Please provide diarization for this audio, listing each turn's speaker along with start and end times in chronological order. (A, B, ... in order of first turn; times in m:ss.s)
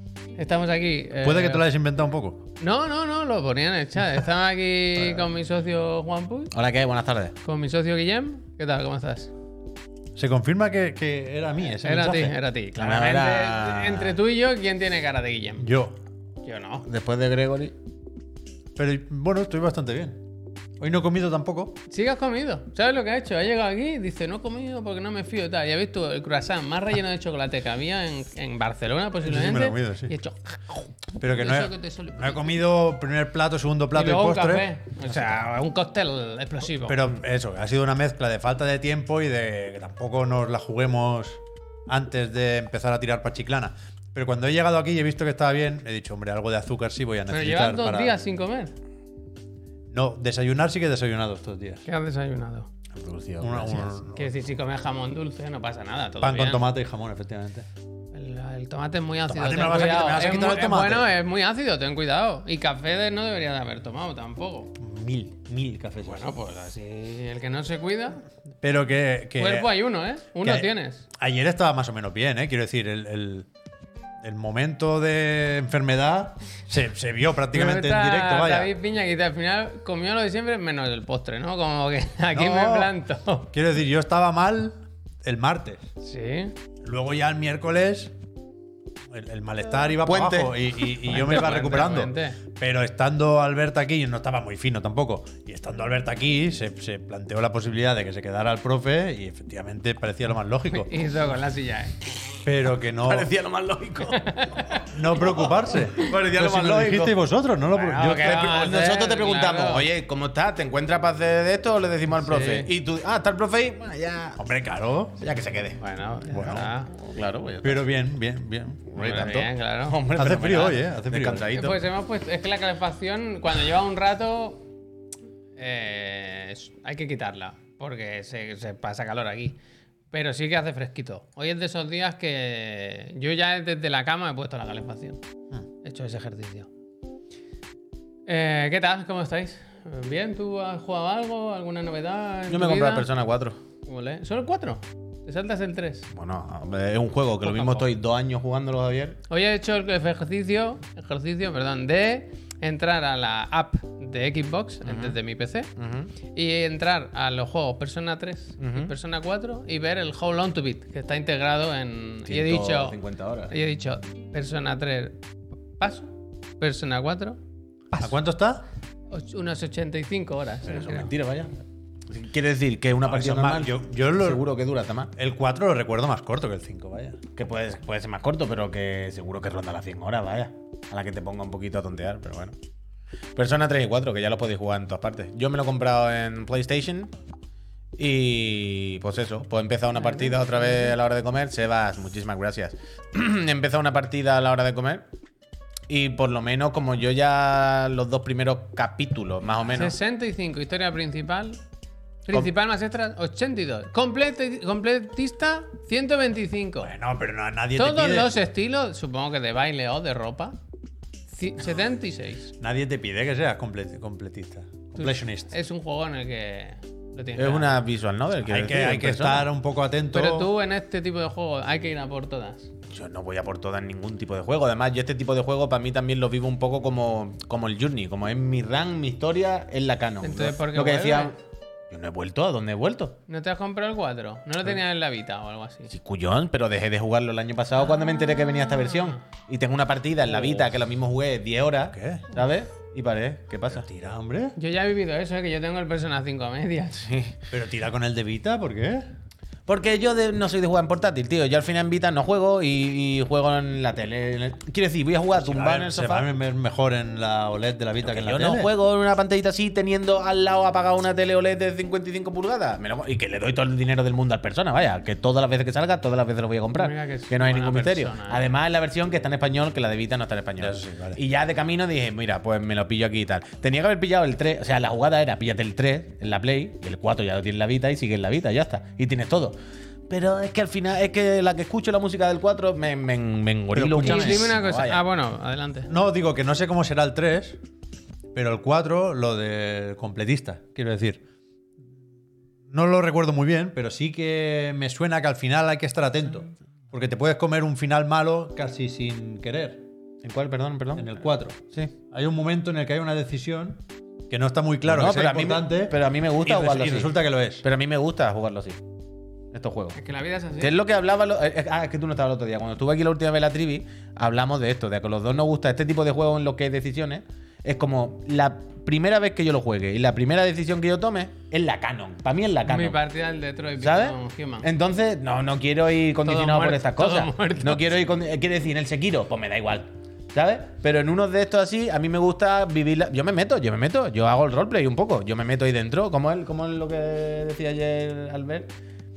0:00.4-0:01.7 A
0:01.2-0:02.5 B
0:02.6-0:06.5 A
0:06.5-0:07.4 C
0:07.4-0:09.3 A
0:10.2-0:12.3 B
0:11.7-0:15.7 A
0:12.8-0:14.2 C
0:15.6-0:16.0 B
0:16.4-0:16.9 A
0:16.8-0:17.7 C
0:18.8-0:20.2 B
0:20.8-0:21.8 B
0:21.9-0:32.6 A
0:29.2-0:30.1 B
0:31.2-0:35.4 B
0:33.9-0:37.2 A
0:36.8-0:48.2 B
0:47.3-0:48.7 A
0:49.9-0:51.8 B
0:51.9-0:52.7 A
0:53.0-0:53.9 C
0:53.4-0:54.5 B
0:54.1-0:56.6 A
0:56.2-0:57.7 B
0:58.1-1:04.7 A
0:59.3-1:01.1 B
1:04.8-1:06.3 B
1:06.0-1:08.2 A
1:08.6-1:09.7 B
1:09.4-1:11.1 A
1:10.4-1:13.5 B
1:14.2-1:18.7 B
1:17.5-1:23.5 A
1:22.3-1:22.9 B
1:23.5-1:25.9 B
1:26.0-1:26.5 A
1:26.8-1:28.1 B
1:29.1-1:41.0 B
1:30.0-1:30.7 C
1:31.0-1:32.4 A
1:40.7-1:42.1 A
1:42.4-1:43.3 B
1:43.0-1:44.5 C
1:44.1-1:44.8 A
1:44.8-1:48.4 B
1:45.3-1:47.2 C
1:45.4-1:46.1 A
1:47.7-1:49.9 A
1:48.0-1:54.4 C
1:52.1-1:52.7 A
1:54.4-1:55.2 B
1:55.2-1:55.8 C
1:55.8-1:56.9 A
1:56.3-1:56.7 B
1:56.9-1:57.9 C
1:57.6-1:59.5 B
1:59.0-2:00.0 A
1:59.2-2:01.8 C
2:00.1-2:01.5 B
2:01.6-2:04.7 A
2:05.6-2:09.6 A
2:10.1-2:15.2 A
2:15.8-2:16.7 A
2:18.3-2:23.1 A
2:22.5-2:23.6 C
2:23.9-2:26.1 A
2:26.1-2:29.2 C
2:27.4-2:27.9 A
2:29.3-2:35.7 A
2:34.9-2:35.2 C
2:35.8-2:36.1 C
2:36.3-2:43.0 A
2:38.6-2:38.9 C
2:42.3-2:43.5 C
2:43.5-2:45.2 A
2:45.8-2:47.4 A
2:48.0-2:48.6 B
2:49.1-2:51.1 A
2:50.6-2:51.6 C
2:52.1-2:55.1 C
2:53.0-2:54.4 B
2:55.2-2:57.2 B
2:57.4-3:02.6 C
3:03.4-3:07.1 C
3:08.0-3:15.0 C
3:10.0-3:11.0 A
3:15.9-3:20.0 C
3:19.7-3:21.6 A
3:22.3-3:26.9 A
3:26.8-3:28.3 B
3:27.8-3:30.6 A
3:31.3-3:32.5 A
3:32.6-3:35.5 B
3:35.0-3:37.8 A
3:37.4-3:39.5 C
3:38.5-3:40.5 B
3:40.1-3:42.7 A
3:42.9-3:51.4 C
3:50.2-3:51.3 A
3:51.9-3:53.2 C
3:53.3-3:55.9 A
3:55.9-4:03.9 C
4:01.9-4:02.3 B
4:03.7-4:04.6 B
4:04.6-4:07.1 A
4:07.0-4:07.4 C
4:07.5-4:09.0 B
4:09.7-4:16.3 C
4:15.3-4:18.7 B
4:18.0-4:39.6 C
4:26.8-4:28.5 A
4:30.6-4:31.2 B
4:40.1-4:45.0 C
4:43.7-4:44.5 B
4:44.0-4:45.9 A
4:45.9-4:47.6 B
4:48.4-4:51.2 B
4:52.7-4:59.8 B
5:00.2-5:01.9 C
5:01.0-5:07.6 B
5:04.9-5:08.8 C
5:09.5-5:10.0 C
5:10.0-5:10.8 A
5:10.6-5:23.0 C
5:22.7-5:24.7 A
5:23.8-5:38.7 C
5:26.3-5:27.9 A